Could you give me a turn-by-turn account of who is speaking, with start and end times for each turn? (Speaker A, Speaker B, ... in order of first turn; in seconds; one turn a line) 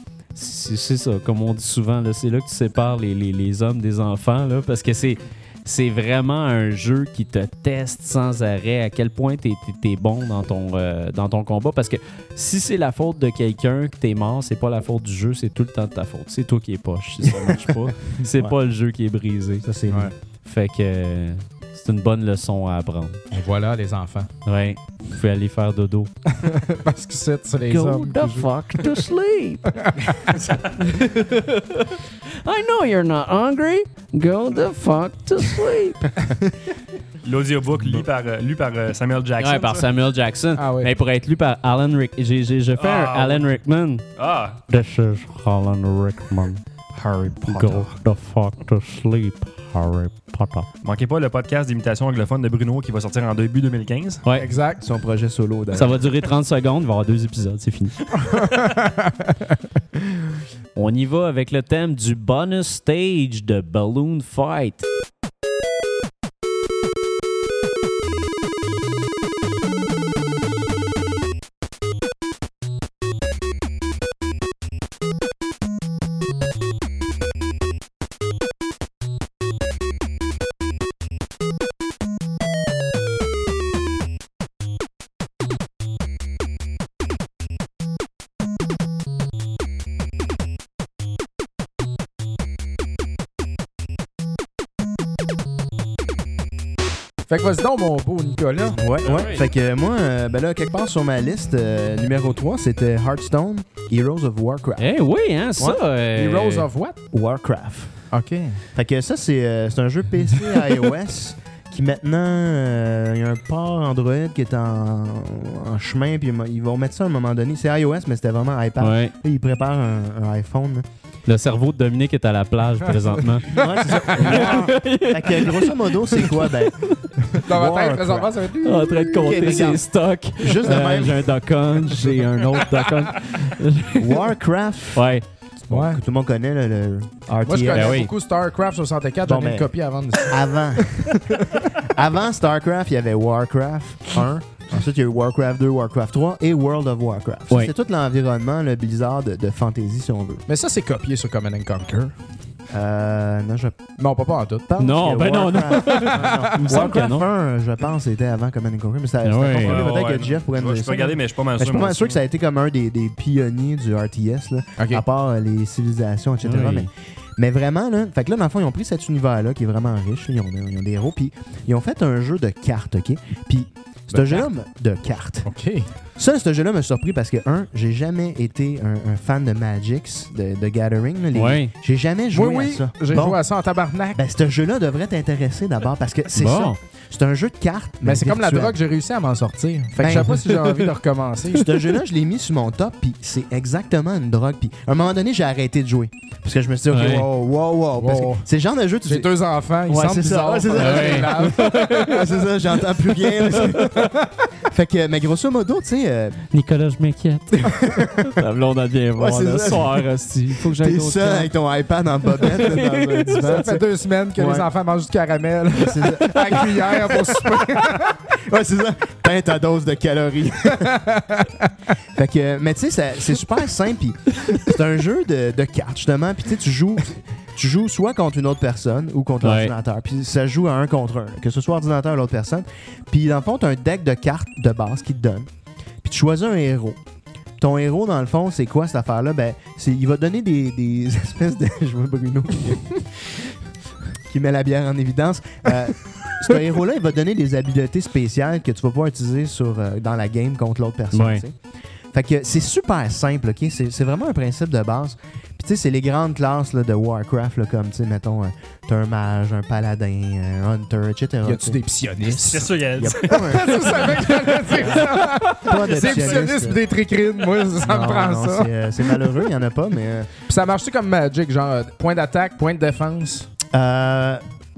Speaker A: 0.3-19.6
Speaker B: 17.2-18.5
Speaker B: 19.6-20.1
Speaker A: 20.4-23.2
Speaker C: 23.3-24.3
Speaker A: 24.4-26.1
Speaker C: 26.4-29.0
Speaker A: 27.6-29.8
Speaker C: 29.8-30.4
Speaker A: 30.8-36.1
Speaker D: 37.2-39.9
Speaker A: 39.4-44.0
Speaker C: 40.5-40.9
Speaker D: 42.8-43.5
Speaker D: 44.1-44.6
Speaker A: 44.7-46.6
Speaker B: 46.9-47.9
Speaker A: 47.4-50.7
Speaker D: 50.8-54.2
Speaker A: 54.2-54.5
Speaker C: 54.3-54.8
Speaker B: 54.8-56.0
Speaker A: 55.7-58.2
Speaker C: 58.2-59.5
Speaker A: 60.7-64.8
Speaker C: 97.3-98.8
Speaker B: 98.7-104.9
Speaker A: 99.0-99.5
Speaker A: 104.8-106.7
Speaker C: 105.6-107.0
Speaker B: 107.1-108.1
Speaker C: 108.1-108.6
Speaker B: 108.7-120.8
Speaker A: 118.8-119.1
Speaker A: 121.3-127.1
Speaker B: 123.5-128.3
Speaker C: 123.6-124.7
Speaker C: 127.4-129.7
Speaker A: 128.6-134.2
Speaker B: 129.2-131.4
Speaker B: 134.0-135.1
Speaker A: 134.9-135.3
Speaker B: 135.6-138.0
Speaker C: 135.7-136.0
Speaker C: 137.4-141.7
Speaker A: 137.7-138.1
Speaker B: 139.2-150.4
Speaker C: 150.5-152.2
Speaker B: 152.7-153.8
Speaker C: 154.0-154.7
Speaker B: 154.7-175.5
Speaker A: 154.8-157.2
Speaker C: 155.8-156.5
Speaker A: 159.2-159.8
Speaker D: 159.6-162.2
Speaker C: 164.8-165.0
Speaker A: 166.4-166.9
Speaker C: 174.1-174.5
Speaker C: 175.4-175.9
Speaker B: 176.1-183.4
Speaker A: 181.3-181.7
Speaker C: 182.3-184.2
Speaker B: 184.1-188.8
Speaker A: 186.3-186.8
Speaker C: 188.0-191.8
Speaker B: 189.9-190.6
Speaker A: 190.1-190.4
Speaker B: 191.5-199.3
Speaker A: 196.9-197.2
Speaker C: 197.9-198.4
Speaker C: 199.0-202.4
Speaker B: 199.8-206.4
Speaker A: 200.7-202.2
Speaker C: 203.2-204.3
Speaker A: 206.5-211.5
Speaker B: 207.7-208.4
Speaker B: 209.2-213.8
Speaker A: 212.5-213.6
Speaker C: 213.3-218.2
Speaker B: 214.3-214.7
Speaker B: 215.8-221.0
Speaker C: 220.8-221.7
Speaker B: 222.1-235.4
Speaker A: 229.4-229.7
Speaker B: 236.0-237.0
Speaker B: 237.6-243.5
Speaker B: 244.2-251.5
Speaker A: 251.1-251.4
Speaker B: 252.1-261.8
Speaker C: 261.4-262.7
Speaker D: 262.3-263.7
Speaker B: 262.5-266.8
Speaker C: 263.3-269.4
Speaker B: 267.8-270.3
Speaker C: 270.5-273.5
Speaker B: 273.7-274.4